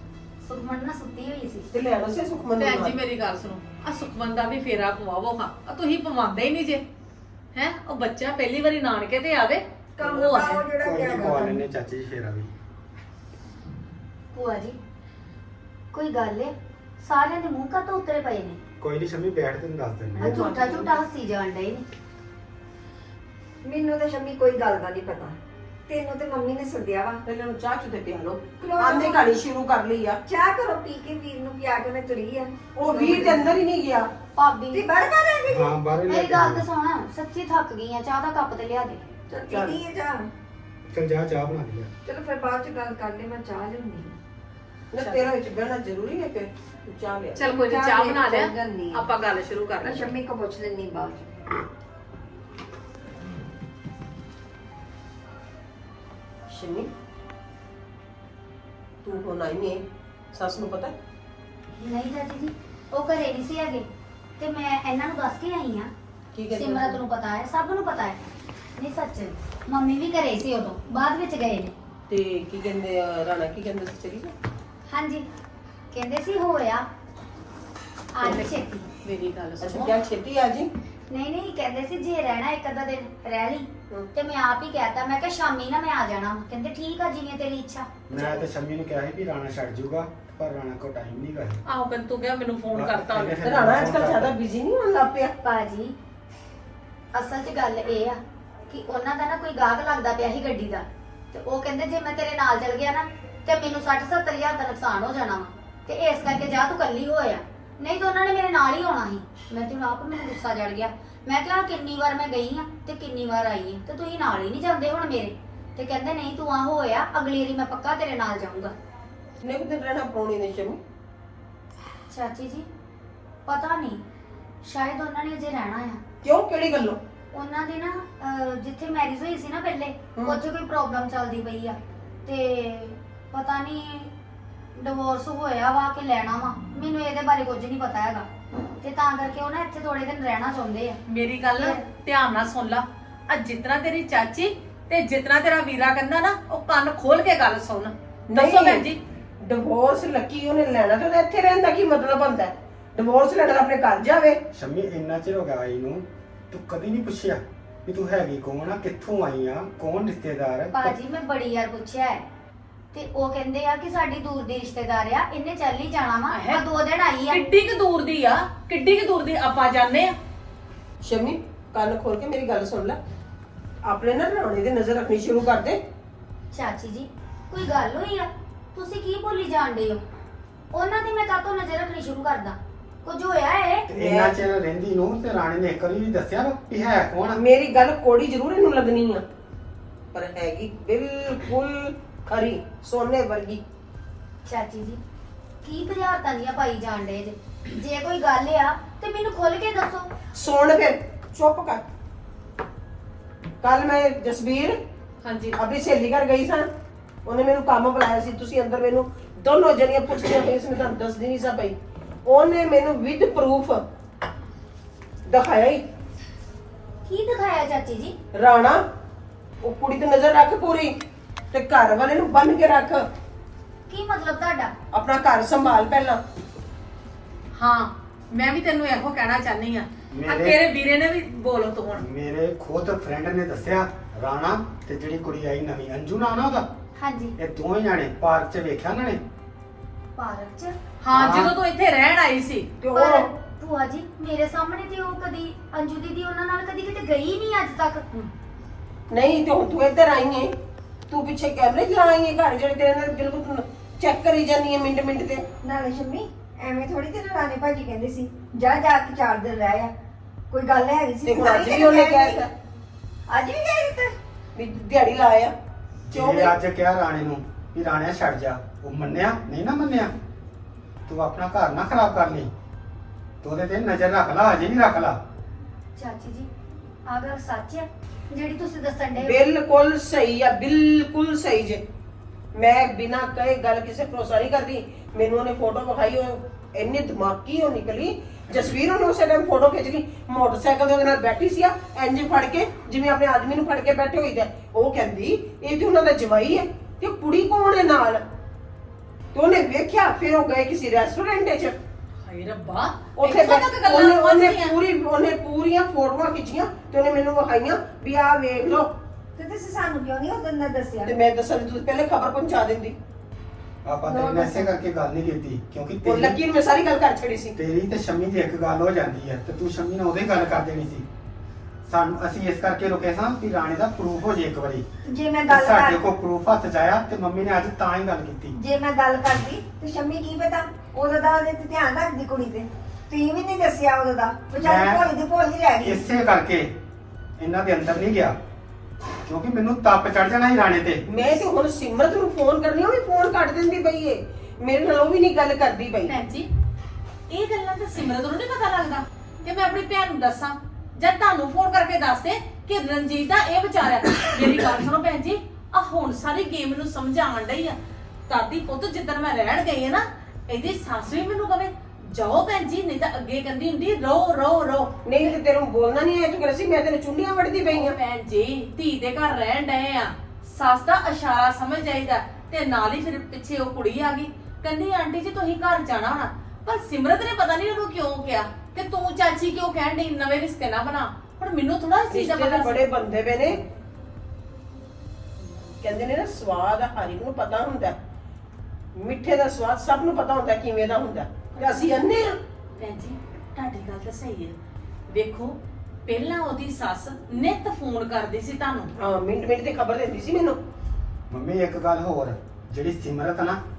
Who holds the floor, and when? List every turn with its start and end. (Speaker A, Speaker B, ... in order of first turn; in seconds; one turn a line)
Speaker A: 0.4-1.7
Speaker B: 1.7-3.0
Speaker C: 2.6-6.8
Speaker C: 7.5-10.6
Speaker D: 10.0-11.6
Speaker E: 10.8-12.5
Speaker A: 14.3-14.8
Speaker A: 15.9-18.6
Speaker E: 18.8-20.5
Speaker A: 20.2-21.9
Speaker B: 20.2-21.0
Speaker D: 23.6-25.4
Speaker D: 25.9-27.2
Speaker B: 27.3-30.2
Speaker D: 28.6-29.4
Speaker D: 30.3-33.5
Speaker B: 32.8-34.1
Speaker A: 34.4-34.8
Speaker D: 34.7-35.8
Speaker E: 35.5-36.6
Speaker A: 36.1-39.0
Speaker D: 39.3-40.3
Speaker B: 39.5-39.8
Speaker E: 40.9-41.9
Speaker D: 42.1-44.1
Speaker B: 44.9-47.5
Speaker C: 45.0-45.2
Speaker C: 47.4-50.1
Speaker D: 47.5-49.1
Speaker D: 49.8-51.5
Speaker B: 56.5-56.9
Speaker B: 59.0-60.9
Speaker A: 61.8-63.9
Speaker A: 64.4-65.9
Speaker B: 66.3-67.0
Speaker A: 66.5-68.2
Speaker A: 68.8-71.7
Speaker B: 72.1-74.3
Speaker A: 74.9-75.3
Speaker A: 75.9-76.9
Speaker A: 78.2-78.9
Speaker C: 79.0-79.9
Speaker B: 79.6-80.7
Speaker A: 81.1-88.4
Speaker E: 88.1-91.6
Speaker C: 91.7-93.4
Speaker E: 92.7-94.3
Speaker B: 93.4-95.3
Speaker A: 95.4-96.0
Speaker A: 97.1-118.7
Speaker B: 119.4-120.8
Speaker A: 122.1-122.7
Speaker A: 123.5-124.0
Speaker A: 124.6-126.0
Speaker B: 126.2-127.0
Speaker A: 127.3-134.1
Speaker A: 134.8-138.3
Speaker A: 138.8-141.0
Speaker C: 141.1-149.0
Speaker A: 141.6-141.8
Speaker B: 148.3-148.9
Speaker B: 149.4-154.4
Speaker E: 154.5-161.0
Speaker A: 160.7-162.2
Speaker A: 162.9-167.4
Speaker C: 166.3-166.7
Speaker C: 167.3-170.1
Speaker B: 171.0-173.0
Speaker B: 173.8-175.8
Speaker A: 176.5-180.0
Speaker A: 180.7-183.9
Speaker E: 183.9-187.4
Speaker B: 183.9-184.3
Speaker B: 187.3-189.2
Speaker B: 190.1-193.6
Speaker A: 194.5-195.0
Speaker A: 195.6-200.1
Speaker B: 200.3-201.8
Speaker B: 203.6-204.8
Speaker C: 205.2-205.6
Speaker B: 205.5-206.7
Speaker B: 207.2-213.8
Speaker B: 215.3-215.8
Speaker A: 217.1-218.2
Speaker B: 218.3-218.8
Speaker B: 219.6-220.9
Speaker B: 221.5-223.1
Speaker A: 223.9-224.7
Speaker B: 224.9-226.2
Speaker C: 227.6-232.1
Speaker E: 230.1-230.6
Speaker E: 231.9-236.7
Speaker A: 237.0-237.4
Speaker E: 237.4-239.2
Speaker A: 240.2-240.8
Speaker C: 241.0-242.7
Speaker E: 241.1-241.5
Speaker B: 242.8-243.3
Speaker A: 242.9-248.0
Speaker B: 249.1-250.5
Speaker B: 251.1-255.4
Speaker D: 255.6-259.9
Speaker D: 260.5-262.4
Speaker B: 261.2-262.5
Speaker D: 263.3-264.1
Speaker B: 264.6-265.5
Speaker E: 266.1-270.1
Speaker B: 266.1-266.5
Speaker E: 271.1-272.5
Speaker E: 273.4-275.2
Speaker A: 276.0-276.5
Speaker A: 277.1-279.4
Speaker B: 279.2-281.8
Speaker B: 282.5-298.2
Speaker B: 299.3-301.8
Speaker C: 302.3-304.8
Speaker B: 303.2-308.9
Speaker D: 309.4-311.1
Speaker B: 311.1-313.0
Speaker E: 313.9-316.4
Speaker D: 314.1-314.7
Speaker B: 316.0-317.6
Speaker E: 317.6-321.1
Speaker E: 321.9-324.9
Speaker D: 325.1-326.0
Speaker E: 325.5-328.6
Speaker D: 328.5-336.0
Speaker E: 334.6-335.1
Speaker E: 335.8-336.8
Speaker E: 337.4-338.4
Speaker E: 339.2-341.0
Speaker B: 341.1-346.2
Speaker C: 346.1-346.5
Speaker C: 347.3-357.8
Speaker C: 358.3-365.3
Speaker B: 365.1-368.0
Speaker C: 367.7-382.8
Speaker B: 382.1-383.6
Speaker B: 385.8-388.0
Speaker B: 389.0-392.4
Speaker C: 391.6-392.0
Speaker C: 392.8-394.5
Speaker C: 395.1-398.9
Speaker B: 399.0-400.6
Speaker E: 401.3-403.6